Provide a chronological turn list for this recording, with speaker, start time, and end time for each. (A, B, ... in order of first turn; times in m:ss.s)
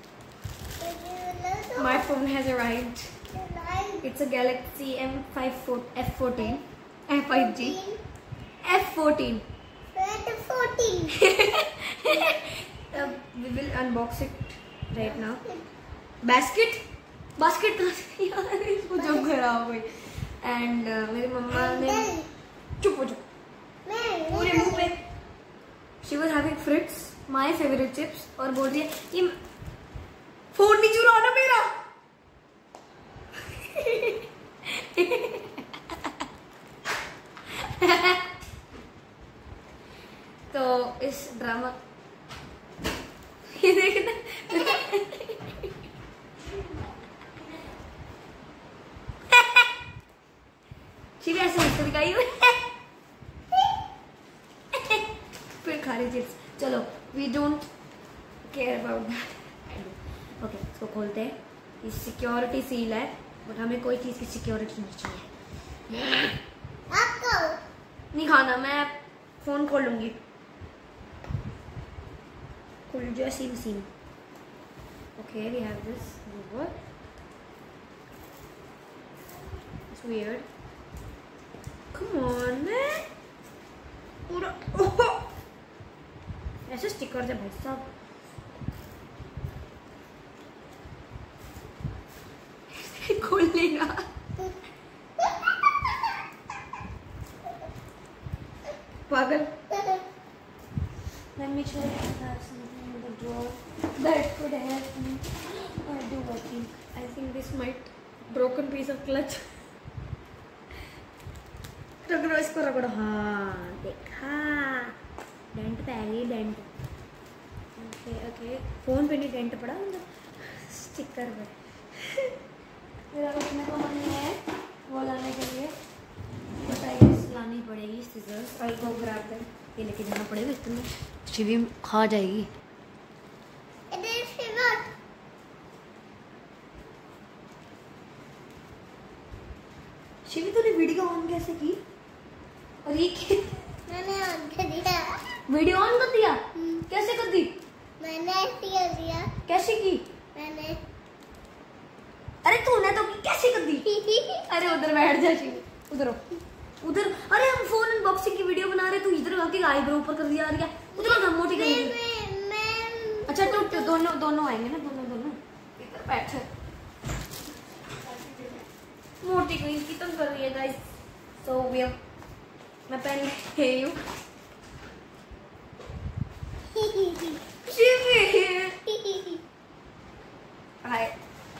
0:00.8-0:02.0 A
0:01.8-0:03.1 B
0:03.3-0:04.0 A
0:04.0-0:07.8 B
0:07.3-0:08.0 A
0:08.6-0:09.4 B
0:09.9-0:11.1 A
0:11.1-0:15.4 B
0:16.2-0:16.8 B
0:17.4-0:22.2 B
0:19.0-0:19.2 A
0:21.5-0:22.3 A
0:22.8-0:23.2 B
0:23.8-0:24.9 A
0:24.3-0:25.0 B
0:26.0-0:29.4 B
0:30.5-0:31.7 B
0:33.6-0:35.6 B
0:37.6-0:38.3 B
0:40.5-0:41.8 B
0:43.5-0:45.7 B
0:49.3-0:49.6 B
0:51.2-0:52.7 B
0:54.7-0:55.1 B
0:55.6-0:57.7 B
0:58.4-1:05.3 B
1:05.9-1:06.4 B
1:06.9-1:07.6 A
1:08.1-1:10.2 B
1:12.9-1:13.9 B
1:15.2-1:16.7 B
1:19.9-1:20.5 B
1:21.9-1:23.1 B
1:24.3-1:25.3 B
1:26.7-1:27.9 B
1:32.7-1:34.0 B
1:39.1-1:39.6 B
1:41.4-1:49.5 B
1:52.0-1:54.9 B
1:55.5-1:56.7 B
1:57.8-2:01.5 B
2:03.1-2:05.7 B
2:06.6-2:12.5 B
2:13.9-2:14.9 A
2:20.2-2:21.8 B
2:22.8-2:23.6 B
2:23.9-2:25.2 A
2:25.4-2:27.6 B
2:26.6-2:26.8 A
2:28.0-2:29.3 A
2:29.4-2:30.1 B
2:30.3-2:30.8 A
2:32.4-2:33.9 B
2:33.8-2:34.5 A
2:34.4-2:36.2 B
2:36.8-2:42.0 B
2:40.9-2:43.9 A
2:43.3-2:46.5 B
2:49.2-2:50.8 B
2:51.4-2:52.0 B
2:52.9-2:54.0 B
2:56.7-2:57.4 A
2:57.6-2:59.4 B
3:00.8-3:01.2 B